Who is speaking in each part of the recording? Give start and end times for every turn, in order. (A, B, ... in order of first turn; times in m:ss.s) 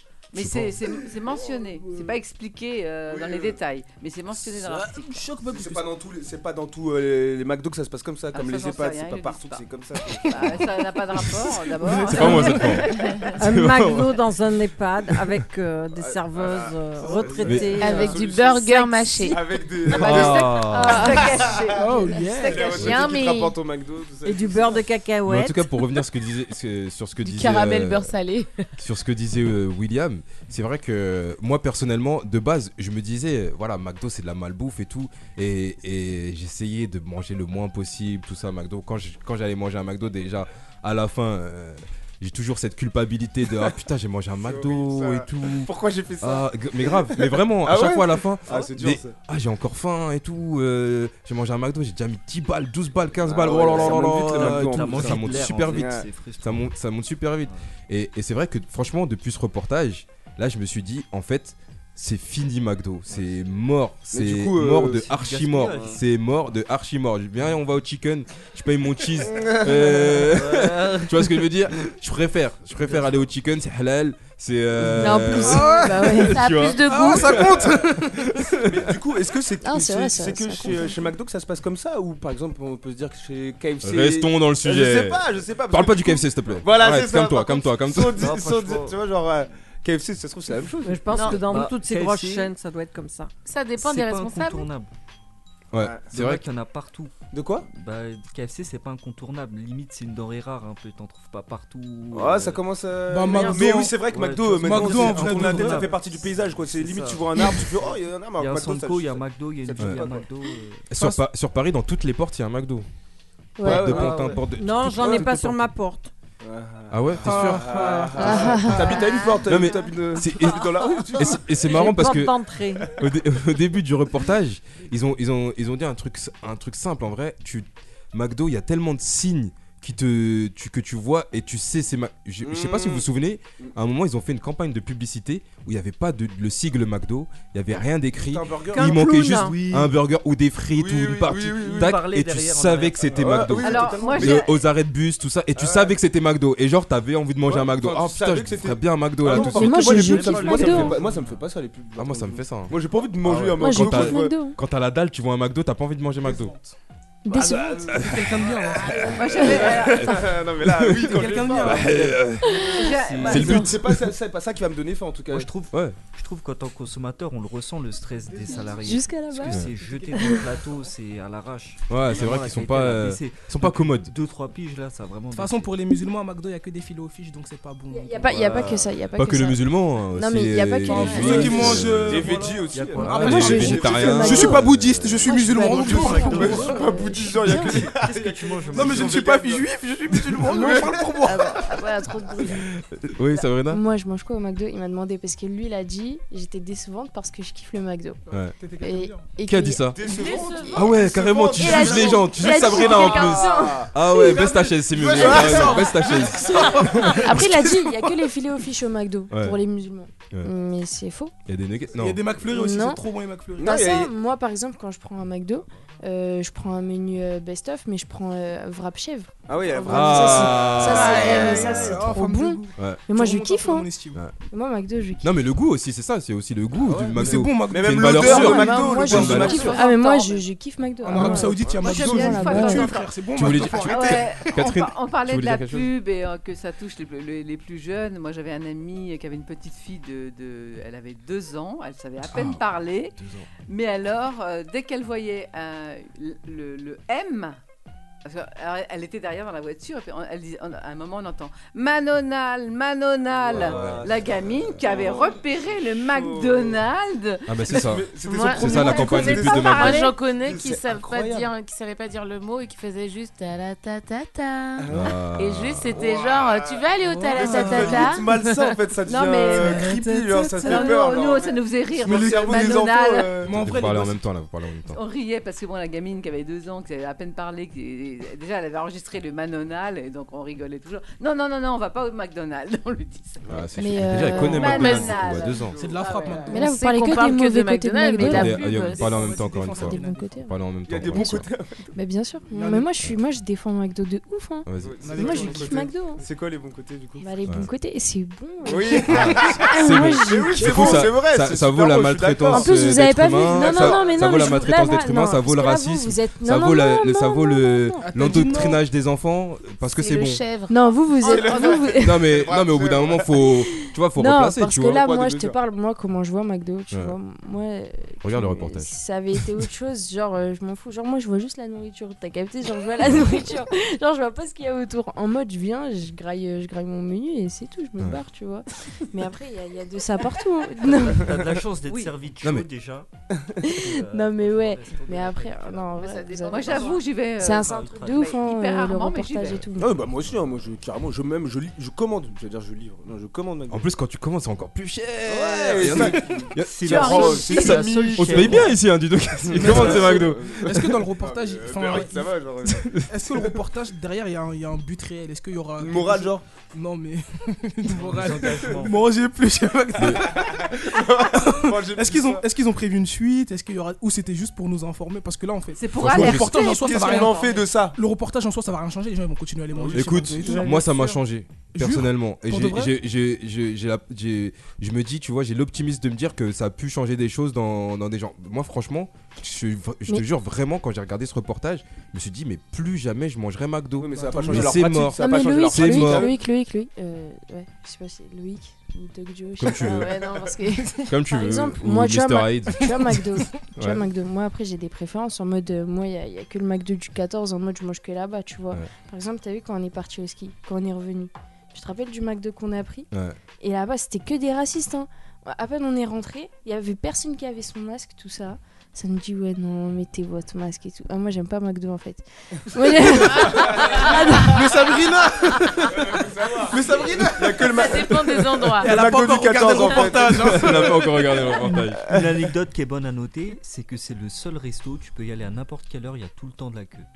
0:00.3-0:05.3 A
0:00.4-0:00.7 B
0:00.9-0:02.2 C
0:03.1-0:03.6 D
0:04.4-0:05.9 C
0:05.5-0:10.6 D
0:08.3-0:09.6 A
0:10.3-0:13.4 A
0:11.8-0:12.8 C
0:11.9-0:12.9 B
0:13.4-0:18.2 E
0:13.4-0:14.2 B
0:16.0-0:24.8 D
0:17.4-0:17.8 B
0:17.7-0:21.7 F
0:19.9-0:21.2 B
0:20.7-0:22.7 A
0:21.7-0:22.7 C
0:22.6-0:23.6 F
0:22.7-0:23.1 B
0:24.2-0:25.7 E
0:25.3-0:28.1 B
0:27.2-0:28.6 F
0:28.8-1:19.0 B
0:44.4-0:49.2 D
0:53.2-0:56.1 D
0:53.5-0:56.7 G
1:03.1-1:03.5 G
1:04.1-1:06.0 D
1:04.9-1:06.0 G
1:09.2-1:10.3 D
1:10.2-1:11.4 G
1:12.8-1:13.3 G
1:14.8-1:16.2 D
1:14.9-1:16.4 H
1:15.5-1:15.9 C
1:16.3-1:17.5 F
1:16.8-1:18.2 C
1:16.9-1:17.9 D
1:18.6-1:31.4 D
1:19.6-1:21.1 H
1:23.8-1:28.3 B
1:28.1-1:29.0 G
1:30.8-1:33.3 E
1:31.2-1:32.5 G
1:33.4-1:34.7 F
1:33.8-1:34.9 G
1:35.7-1:36.4 B
1:35.8-1:36.1 D
1:36.1-1:37.1 G
1:37.3-1:37.7 D
1:37.7-1:42.6 G
1:42.1-1:50.3 D
1:43.1-1:44.0 C
1:43.4-1:50.9 G
1:44.6-1:45.9 C
1:49.8-1:50.0 B
1:50.9-1:52.9 B
1:53.6-1:54.1 H
1:53.6-1:54.4 D
1:53.6-1:55.7 B
1:54.6-1:56.1 E
1:55.0-1:55.3 D
1:56.4-2:01.6 D
1:56.9-1:57.9 B
1:57.2-1:58.7 C
1:58.2-1:59.3 H
1:59.4-2:30.0 B
2:01.6-2:02.9 E
2:12.4-2:13.0 D
2:18.2-2:19.1 D
2:18.7-2:19.6 E
2:19.3-2:19.9 G
2:20.7-2:22.1 D
2:21.5-2:23.5 G
2:23.1-2:24.5 D
2:23.6-2:24.6 A
2:25.6-2:26.0 D
2:27.4-2:34.4 D
2:29.4-2:31.0 H
2:29.6-2:31.4 G
2:30.2-2:30.8 C
2:32.0-2:36.6 B
2:33.6-2:34.6 H
2:36.2-2:36.8 C
2:37.2-2:38.0 H
2:37.3-2:39.7 C
2:37.8-2:38.5 B
2:38.8-2:42.3 D
2:39.0-2:40.3 A
2:39.7-2:42.6 B
2:41.0-2:42.2 C
2:42.4-2:42.9 H
2:42.7-2:43.6 A
2:42.8-2:43.7 G
2:43.2-2:43.5 C
2:43.2-2:45.5 D
2:43.2-2:44.1 B
2:45.3-2:55.7 G
2:45.7-2:46.0 B
2:48.3-2:50.7 C
2:48.6-2:49.6 H
2:51.9-2:54.1 B
2:55.3-2:58.6 C
2:57.9-3:01.7 H
2:58.2-2:59.0 G
2:59.1-3:02.3 B
3:00.8-3:06.8 C
3:01.0-3:03.9 G
3:01.2-3:04.6 D
3:03.0-3:05.2 B
3:03.3-3:04.6 H
3:05.2-3:07.7 H
3:05.4-3:09.3 G
3:05.8-3:09.7 D
3:08.7-3:11.7 C
3:10.4-3:11.8 D
3:11.2-3:12.6 H
3:12.5-3:13.8 B
3:13.3-3:18.2 H
3:18.3-3:19.4 C
3:18.3-3:18.6 B
3:18.8-3:20.4 H
3:19.4-3:20.0 B
3:19.9-3:27.2 D
3:20.1-3:20.9 F
3:20.7-3:27.5 B
3:21.6-3:24.5 H
3:21.8-3:23.8 F
3:25.0-3:28.3 C
3:27.2-3:31.3 H
3:29.3-3:29.6 B
3:31.5-3:32.2 B
3:31.9-3:33.8 C
3:32.5-3:33.0 H
3:33.6-3:34.1 D
3:33.6-3:45.4 H
3:39.5-3:41.8 D
3:39.9-3:42.1 B
3:40.6-3:44.2 C
3:42.8-3:43.0 B
3:45.2-3:49.7 B
3:46.8-3:49.9 D
3:47.1-3:49.7 C
3:48.2-3:53.0 H
3:49.2-3:50.5 A
3:51.0-3:54.5 C
3:51.2-3:52.8 D
3:51.7-4:03.2 A
3:53.4-3:55.9 B
4:02.3-4:03.5 B
4:03.7-4:07.6 A
4:08.2-4:17.8 A
4:13.4-4:16.8 D
4:13.6-4:14.2 B
4:13.7-4:14.0 G
4:17.5-4:20.0 B
4:17.7-4:21.5 D
4:18.2-4:28.3 F
4:18.7-4:20.1 A
4:24.8-4:25.2 D
4:24.9-4:26.0 B
4:25.9-4:33.6 D
4:27.1-4:28.2 C
4:29.1-4:29.9 A
4:29.5-4:30.8 C
4:30.5-4:33.4 A
4:32.0-4:32.6 C
4:33.4-4:34.2 C
4:33.4-4:35.0 B
4:34.9-4:43.4 A
4:43.4-4:46.4 D
4:43.4-4:45.8 B
4:43.8-4:45.0 H
4:44.2-4:46.5 A
4:44.6-4:45.2 F
4:45.7-4:46.7 C
4:46.5-4:48.7 H
4:46.5-4:49.3 F
4:48.2-4:51.5 B
4:48.6-4:50.5 C
4:49.6-4:50.5 H
4:50.8-4:51.9 D
4:51.1-4:51.4 H
4:51.9-4:56.2 H
4:52.5-4:52.9 C
4:54.6-4:55.2 B
4:54.8-4:57.3 D
4:55.0-4:56.0 C
4:57.2-5:01.0 H
4:58.6-5:02.8 D
4:59.1-5:10.4 B
5:02.5-5:08.6 H
5:03.5-5:04.2 D
5:08.0-5:08.8 C
5:09.9-5:10.8 F
5:10.7-5:12.3 H
5:11.2-5:13.3 D
5:11.2-5:12.0 A
5:11.9-5:15.0 B
5:13.7-5:31.3 H
5:14.8-5:15.6 D
5:16.9-5:17.2 B
5:18.2-5:18.9 B
5:23.0-5:23.4 B
5:30.8-5:33.1 G
5:31.8-5:32.1 A
5:32.4-5:32.7 B
5:33.6-5:39.9 H
5:33.8-5:37.0 G
5:36.0-5:39.7 A
5:36.6-5:37.0 F
5:37.5-5:38.4 G
5:39.8-5:43.8 D
5:43.7-5:50.7 B
5:45.3-5:48.7 D
5:45.8-5:48.8 G
5:46.8-5:47.9 A
5:49.5-5:53.5 D
5:49.5-5:52.3 C
5:52.6-5:53.0 B
5:53.0-6:11.2 C
5:55.8-5:56.4 D
5:57.9-5:59.1 G
6:00.0-6:00.3 B
6:00.4-6:02.4 D
6:05.8-6:07.7 A
6:06.0-6:06.6 B
6:06.7-6:08.0 D
6:09.7-6:10.9 D
6:09.9-6:26.3 B
6:11.7-6:12.9 C
6:24.0-6:26.4 D
6:24.1-6:25.0 C
6:25.2-6:54.6 H
6:29.6-6:30.1 B
6:29.8-6:30.2 D
6:31.0-6:34.0 B
6:43.1-6:43.4 B
6:53.5-6:54.1 D
6:54.0-6:56.0 C
6:55.9-7:01.4 D
6:56.6-6:57.8 C
6:57.7-6:58.9 F
6:58.8-7:01.5 C
7:00.4-7:02.1 B
7:01.6-7:07.1 G
7:02.1-7:02.4 D